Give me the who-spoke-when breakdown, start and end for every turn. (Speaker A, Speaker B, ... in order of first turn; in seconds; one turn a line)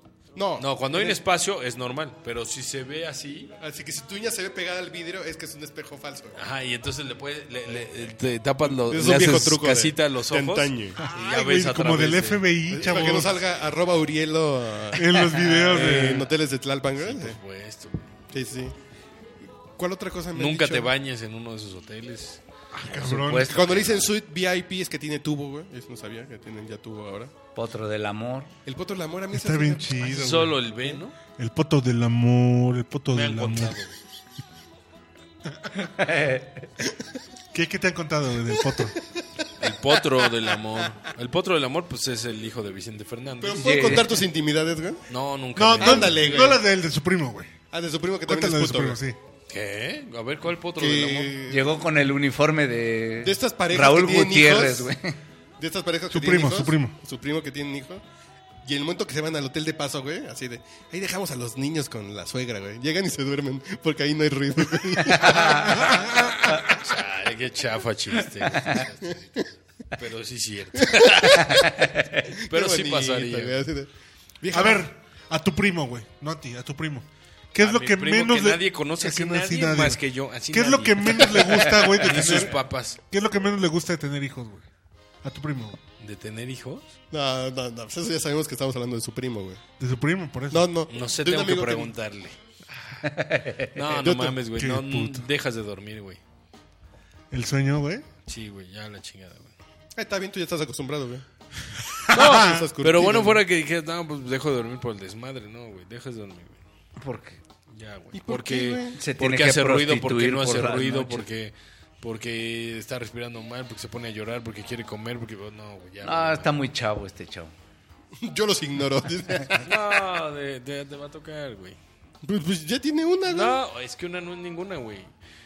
Speaker A: 0.3-1.2
Speaker B: 0.6-3.5
Speaker A: 3.6-6.4
Speaker B: 6.3-12.5
Speaker A: 7.7-7.9
Speaker A: 8.7-11.0
Speaker C: 11.0-13.4
Speaker A: 12.7-17.4
Speaker C: 14.9-16.3
Speaker B: 15.8-16.2
Speaker B: 17.0-18.2
Speaker A: 18.3-18.8
Speaker A: 19.7-20.9
Speaker B: 20.3-22.4
Speaker C: 22.7-23.7
Speaker D: 22.9-24.0
Speaker A: 23.4-27.3
Speaker D: 27.6-28.5
Speaker A: 28.6-30.3
Speaker C: 29.3-30.6
Speaker B: 30.0-31.2
Speaker C: 31.4-33.8
Speaker B: 33.1-34.0
Speaker D: 35.7-36.7
Speaker C: 37.5-39.0
Speaker B: 39.6-44.0
Speaker A: 43.4-45.0
Speaker D: 43.5-44.2
Speaker B: 45.1-46.4
Speaker C: 45.6-47.5
Speaker A: 45.8-46.6
Speaker A: 47.7-49.0
Speaker C: 48.3-49.2
Speaker B: 49.5-51.4
Speaker A: 50.8-51.7
Speaker D: 51.5-55.2
Speaker A: 53.2-54.9
Speaker A: 55.6-58.0
Speaker C: 56.1-57.0
Speaker A: 58.6-65.8
Speaker D: 65.1-65.8
Speaker C: 65.2-66.7
Speaker B: 66.7-73.7
Speaker A: 70.8-71.5
Speaker D: 71.5-72.3
Speaker A: 72.3-74.9
Speaker C: 74.5-84.7
Speaker B: 77.6-83.0
Speaker C: 85.2-85.8
Speaker B: 86.0-86.9
Speaker A: 87.1-89.6
Speaker C: 89.8-90.7
Speaker A: 90.5-91.9
Speaker B: 90.9-92.4
Speaker D: 93.0-93.7
Speaker B: 93.7-96.2
Speaker A: 93.9-94.4
Speaker C: 94.5-95.3
Speaker C: 97.3-98.1
Speaker B: 98.3-99.5
Speaker A: 100.0-101.2
Speaker C: 102.0-102.7
Speaker A: 102.1-103.4
Speaker B: 102.1-106.6
Speaker D: 107.0-107.4
Speaker B: 107.7-116.5
Speaker A: 108.1-109.0
Speaker D: 109.0-111.3
Speaker D: 116.0-117.5
Speaker A: 118.2-119.8
Speaker B: 119.6-121.8
Speaker A: 122.2-123.6
Speaker B: 123.3-125.1